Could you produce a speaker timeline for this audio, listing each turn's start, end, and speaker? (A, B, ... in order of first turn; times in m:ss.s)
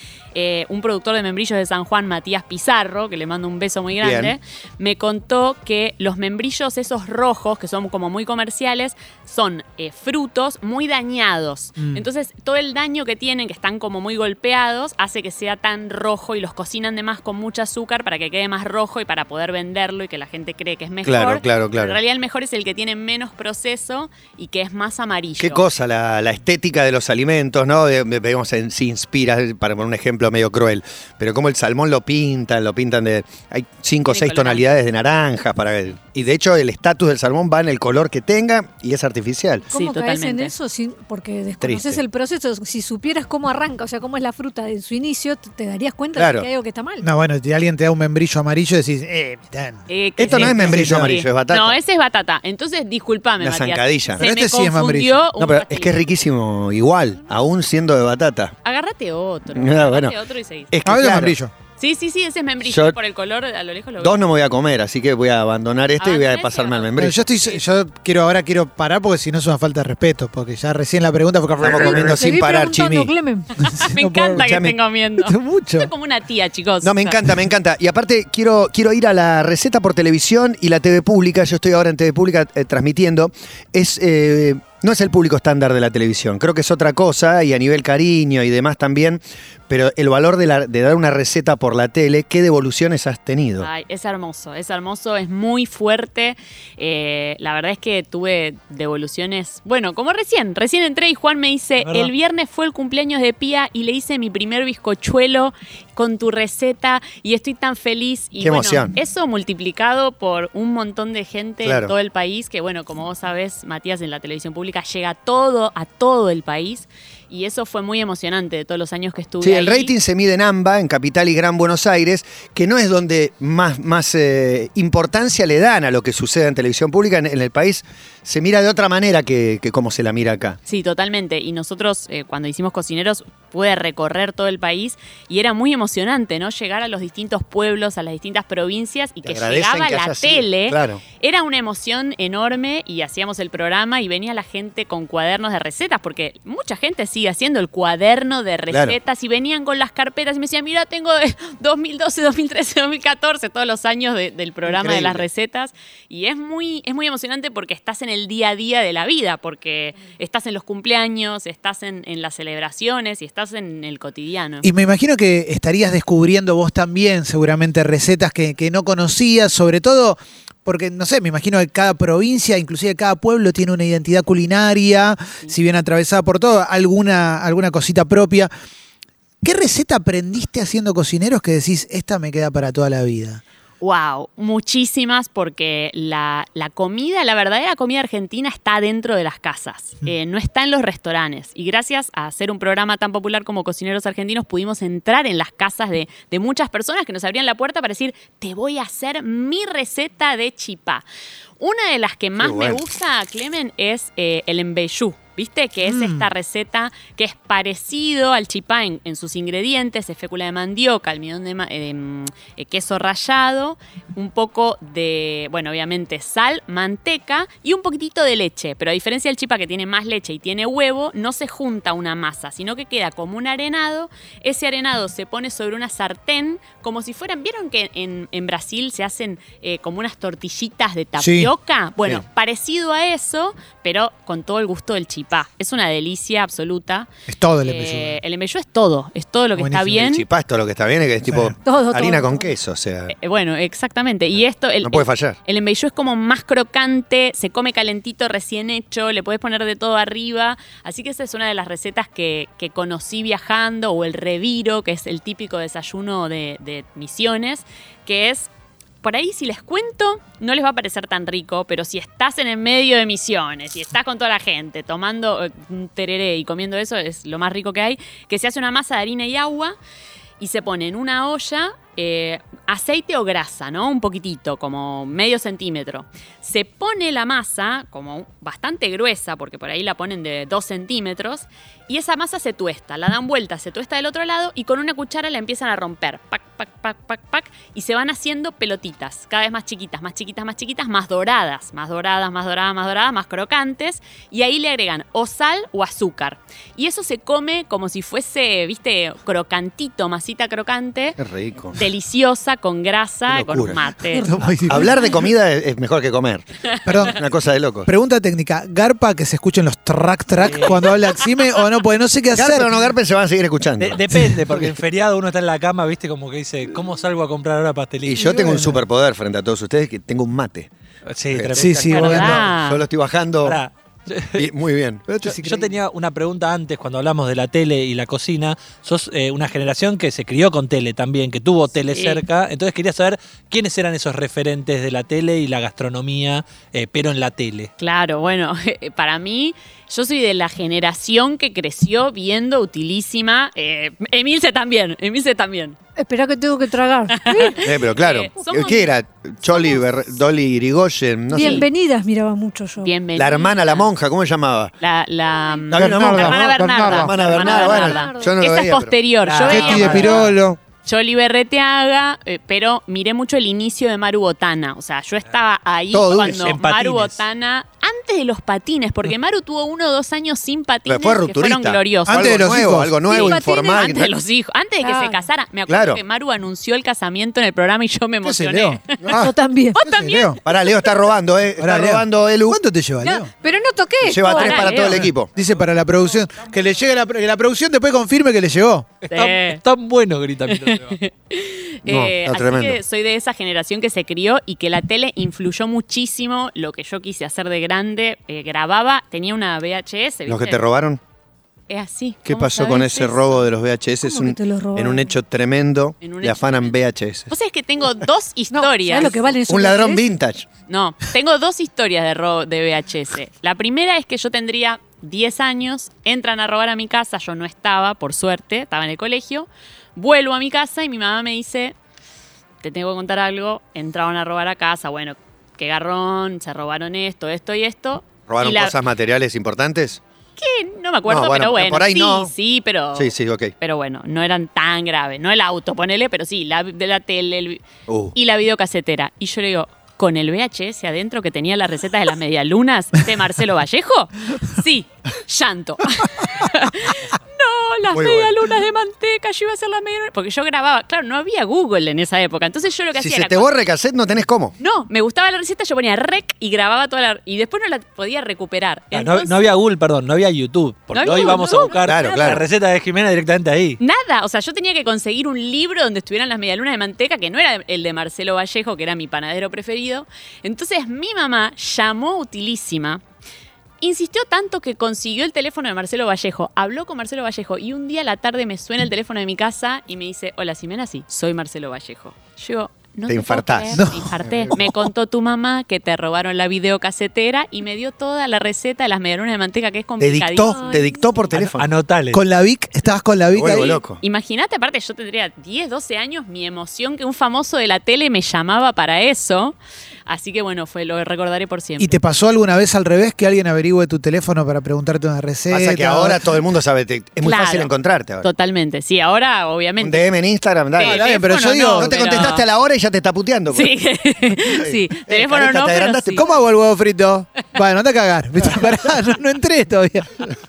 0:00.3-0:25.6 A
0:04.0-0:04.4 B
0:21.0-0:22.0 B
0:25.4-0:39.7 B
0:34.0-0:34.7 A
0:39.7-0:47.1 C
0:39.7-0:40.5 A
0:41.6-0:42.0 B
0:46.2-0:46.5 B
0:47.0-0:51.1 D
0:49.9-0:56.0 A
0:50.2-0:51.8 B
0:53.4-0:54.2 B
0:54.2-0:55.2 D
0:55.4-0:58.5 B
0:58.6-1:00.7 A
0:59.5-1:00.2 B
1:00.7-1:01.4 B
1:00.8-1:01.5 D
1:01.8-1:04.2 A
1:02.6-1:03.0 B
1:04.0-1:07.3 B
1:06.0-1:07.6 A
1:07.0-1:12.3 D
1:11.6-1:13.1 B
1:11.8-1:13.5 C
1:13.6-1:17.2 A
1:13.8-1:14.6 D
1:14.4-1:14.8 B
1:15.2-1:15.9 D
1:16.8-1:33.7 B
1:33.6-1:59.9 A
1:41.8-1:42.1 E
1:48.4-1:48.9 B
1:51.6-1:51.9 B
1:59.4-2:10.6 B
2:10.7-2:44.7 A
2:19.2-2:21.0 B
2:28.7-2:29.0 B
2:34.7-2:35.3 B
2:44.6-2:58.5 D
2:59.4-3:03.4 D
3:03.8-3:21.0 A
3:21.6-3:57.1 A
3:22.4-3:22.8 B
3:25.8-3:26.3 D
3:51.2-3:51.5 D
3:57.3-3:58.2 D
3:57.6-4:00.2 A
3:59.6-4:00.0 D
3:59.9-4:03.1 B
4:01.2-4:01.6 D
4:01.6-4:02.5 C
4:03.1-4:18.5 A
4:04.8-4:05.4 B
4:19.0-4:29.8 A
4:30.4-5:01.2 A
5:01.2-5:01.8 B
5:01.7-5:04.5 A
5:03.3-5:03.8 B
5:04.1-5:05.1 D
5:04.6-5:06.4 B
5:06.8-5:07.2 D
5:07.0-5:07.9 B
5:07.8-5:12.9 D
5:10.4-5:10.8 E
5:12.4-5:14.0 B
5:13.8-5:18.4 E
5:14.1-5:14.7 D
5:18.1-5:20.7 B
5:18.2-5:18.8 D
5:21.1-5:22.5 E
5:21.3-5:23.6 B
5:21.5-5:22.5 D
5:21.9-5:22.8 A
5:23.4-5:24.5 E
5:24.4-5:25.1 B
5:25.1-5:25.8 D
5:25.2-5:37.7 E
5:31.9-5:32.2 A
5:37.8-5:45.8 A
5:46.0-5:47.7 C
5:47.1-5:48.9 A
5:47.6-5:51.7 B
5:51.3-5:52.9 C
5:51.3-5:51.7 A
5:52.8-5:53.9 A
5:53.2-5:54.7 B
5:54.8-6:00.3 A
5:55.7-5:58.9 B
5:55.7-5:57.4 D
5:57.4-5:58.3 C
5:59.2-6:00.4 E
5:59.4-6:00.6 D
5:59.7-6:00.1 B
6:00.8-6:12.6 A
6:05.9-6:06.5 B
6:06.2-6:07.2 E
6:10.9-6:14.1 B
6:12.1-6:13.0 D
6:13.1-6:14.0 C
6:13.1-6:19.2 A
6:14.8-6:15.2 C
6:15.7-6:16.0 B
6:18.2-6:20.4 D
6:19.1-6:19.8 C
6:19.8-6:20.9 A
6:20.4-6:22.6 B
6:21.6-6:23.3 D
6:23.0-6:25.1 C
6:24.0-6:25.3 B
6:24.3-6:25.0 A
6:24.8-6:28.9 D
6:29.0-6:31.0 E
6:29.1-6:29.6 A
6:30.5-6:40.6 A
6:31.9-6:32.8 B
6:40.3-6:41.0 B
6:41.7-6:43.4 A
6:42.3-6:47.3 B
6:44.0-6:45.2 C
6:46.0-6:46.8 A
6:47.3-6:49.3 A
6:48.5-6:50.0 C
6:49.5-6:50.5 B
6:50.7-7:01.8 A
7:02.6-7:08.7 A
7:08.3-7:10.0 B
7:10.4-7:17.6 A
7:11.1-7:12.3 B
7:13.0-7:13.5 B
7:17.9-7:18.1 B
7:18.1-7:33.5 A
7:27.9-7:28.3 B
7:33.0-7:34.5 B
7:34.6-7:39.5 A
7:38.9-7:43.8 E
7:40.9-7:42.4 A
7:41.8-7:42.4 B
7:43.8-7:53.0 A
7:53.8-8:10.9 A
8:03.1-8:04.7 B
8:03.7-8:04.7 D
8:10.0-8:11.7 B
8:10.4-8:11.3 C
8:11.4-8:12.2 E
8:12.1-8:13.8 D
8:13.3-8:14.0 B
8:14.0-8:19.6 A
8:20.1-8:22.0 A
8:21.8-8:26.2 D
8:25.5-8:28.3 B
8:27.2-8:30.1 A
8:29.8-8:31.1 B
8:30.8-8:32.4 A
8:30.8-8:32.4 D
8:31.8-8:33.7 B
8:33.5-8:36.3 A
8:34.5-8:36.3 B
8:36.2-8:40.2 D